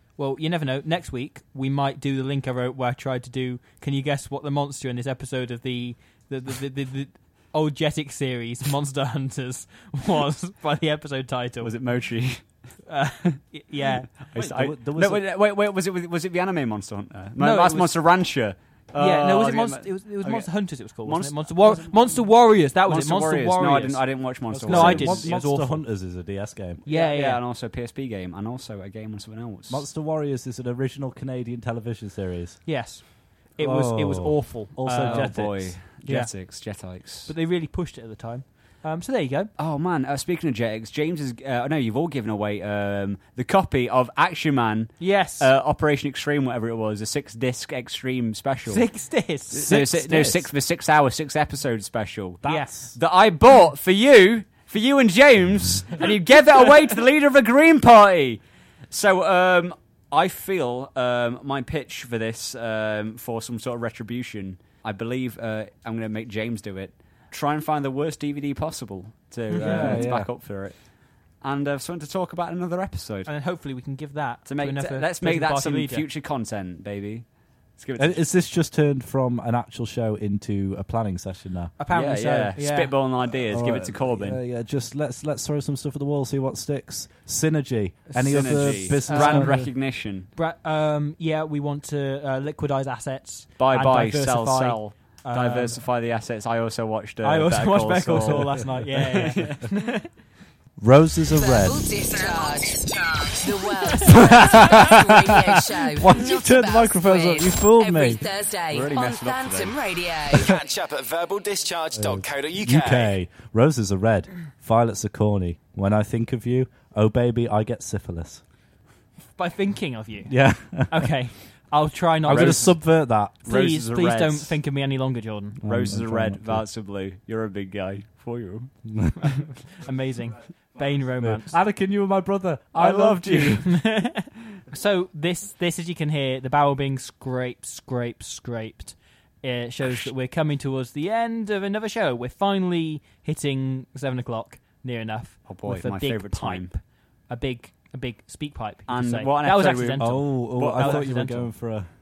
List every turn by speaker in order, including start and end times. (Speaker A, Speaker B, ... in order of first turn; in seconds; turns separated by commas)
Speaker A: 0.2-11.7, Speaker B: 11.6-12.8, Speaker A: 12.8-14.1, Speaker B: 14.2-21.8, Speaker C: 14.3-15.2, Speaker A: 17.4-18.2, Speaker A: 18.9-25.9, Speaker C: 21.6-22.2, Speaker B: 22.9-25.3, Speaker C: 24.5-26.8, Speaker B: 26.8-29.8, Speaker A: 26.9-27.4, Speaker C: 29.7-32.9, Speaker A: 32.6-39.5, Speaker C: 33.6-35.7, Speaker B: 35.0-37.3, Speaker B: 39.6-48.9, Speaker A: 45.0-45.5, Speaker A: 48.7-49.8, Speaker B: 49.5-73.3, Speaker C: 49.6-50.5, Speaker C: 52.4-53.0, Speaker A: 52.4-52.7, Speaker A: 56.0-56.7, Speaker C: 69.5-70.3, Speaker A: 69.6-70.0, Speaker A: 73.2-76.0, Speaker B: 74.5-78.2, Speaker C: 78.0-81.7, Speaker A: 81.8-83.0, Speaker B: 81.9-84.4, Speaker C: 83.4-89.7, Speaker B: 88.1-90.3, Speaker A: 88.2-89.7, Speaker A: 90.3-95.8, Speaker B: 93.6-99.6, Speaker A: 97.2-100.0, Speaker C: 98.2-99.6, Speaker C: 100.8-101.8, Speaker D: 101.3-110.6, Speaker C: 104.1-108.2, Speaker B: 108.7-109.8, Speaker E: 110.4-113.2, Speaker C: 111.9-118.4, Speaker A: 119.3-122.8, Speaker C: 120.2-121.1, Speaker C: 122.2-123.3, Speaker B: 122.2-122.8, Speaker A: 123.4-125.6, Speaker B: 123.4-124.6, Speaker C: 125.6-126.7, Speaker B: 125.6-128.7, Speaker A: 129.2-131.6, Speaker C: 130.8-133.6, Speaker B: 132.7-133.8, Speaker A: 133.6-151.5, Speaker B: 139.8-140.1, Speaker B: 145.4-146.7, Speaker B: 148.9-151.1, Speaker C: 150.0-151.9